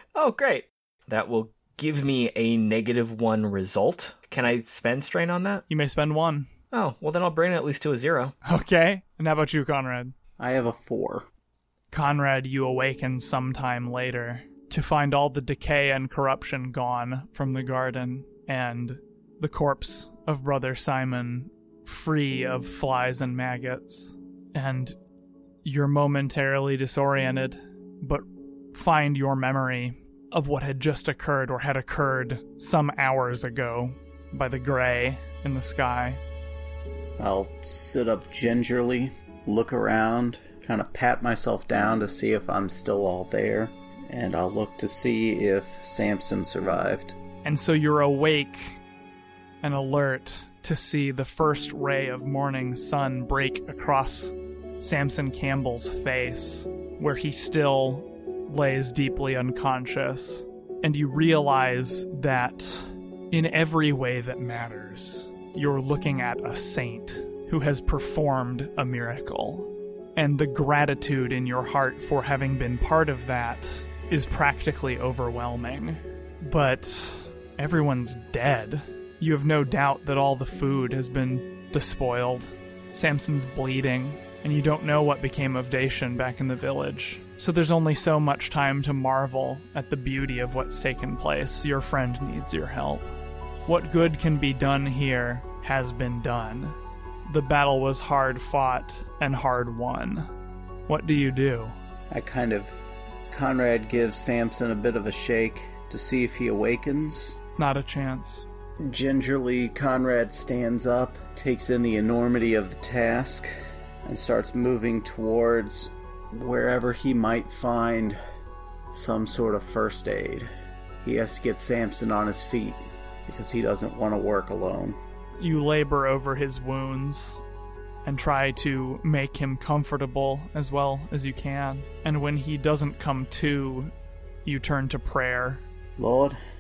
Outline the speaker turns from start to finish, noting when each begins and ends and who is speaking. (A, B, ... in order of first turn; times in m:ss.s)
0:00.2-0:05.6 A
0:05.7-0:06.5 B
0:06.7-0:08.4 A
0:08.4-0:10.1 B
0:10.4-0:11.3 C
0:11.9-0:25.0 B
0:25.6-0:36.2 B
0:37.2-0:47.2 C
0:47.4-0:48.8 B
0:49.6-1:33.1 B
1:33.7-1:40.3 B
1:40.9-1:41.8 B
1:42.1-1:42.7 C
1:43.3-1:47.4 C
1:47.6-1:48.5 B
1:48.8-1:53.5 C
1:54.0-1:58.2 C
1:58.9-2:00.5 C
2:01.0-2:05.0 C
2:05.4-2:07.4 B
2:08.0-2:13.9 B
2:14.4-2:15.6 B
2:16.0-2:16.4 C